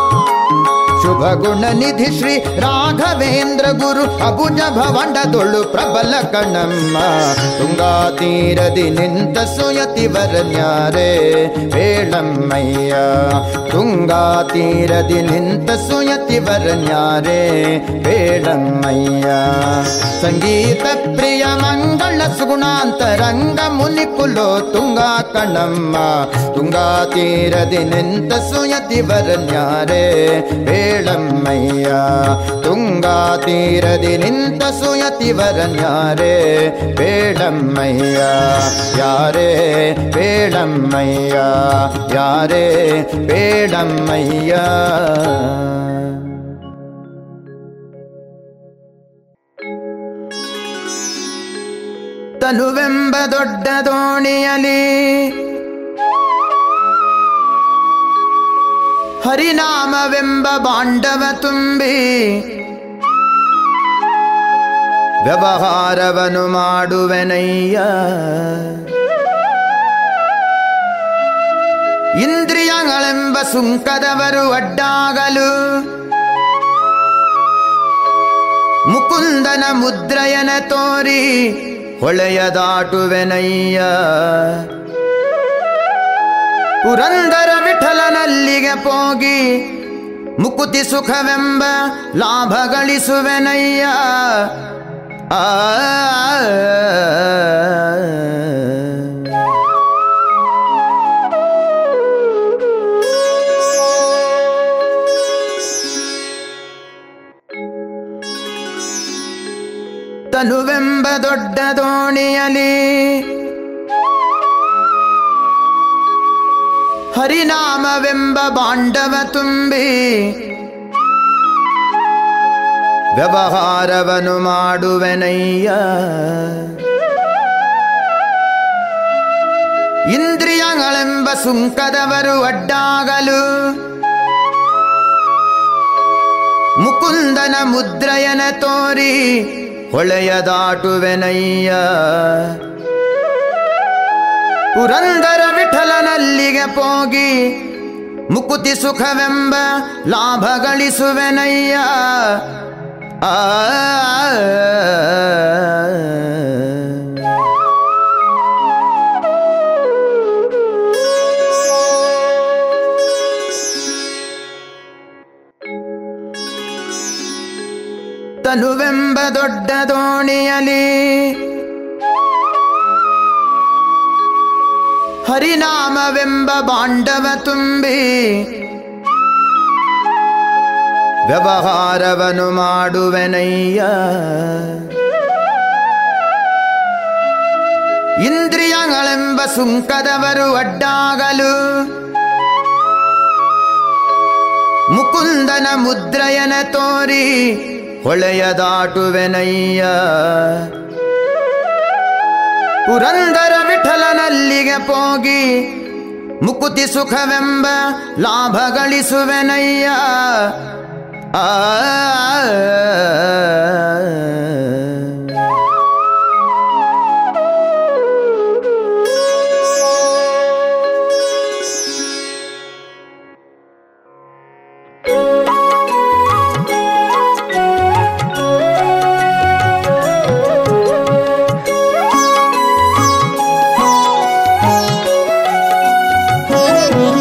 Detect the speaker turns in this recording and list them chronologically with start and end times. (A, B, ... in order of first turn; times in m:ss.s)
0:01.0-0:46.2 A
0:52.4-0:55.4 A
0:59.2-1:02.4 A
1:05.2-1:08.7 A
1:12.2-1:15.5 A
1:18.9-1:24.7 A
1:26.8-1:29.4 A
1:30.4-1:34.5 A
1:35.3-1:39.0 A
1:50.3-1:53.3 A
1:57.1-2:00.3 A
2:03.2-2:06.7 A
2:10.1-2:13.4 A
2:16.8-2:22.6 A
2:24.8-2:27.4 A
2:28.3-2:32.4 A
2:33.2-2:36.8 A
2:48.4-2:51.4 A
2:55.3-2:58.5 A
3:01.3-3:04.8 A
3:08.2-3:11.5 A
3:14.9-3:17.3 A
3:18.0-3:20.7 A
3:22.9-3:25.5 A
3:26.4-3:30.6 A
3:31.4-3:35.0 A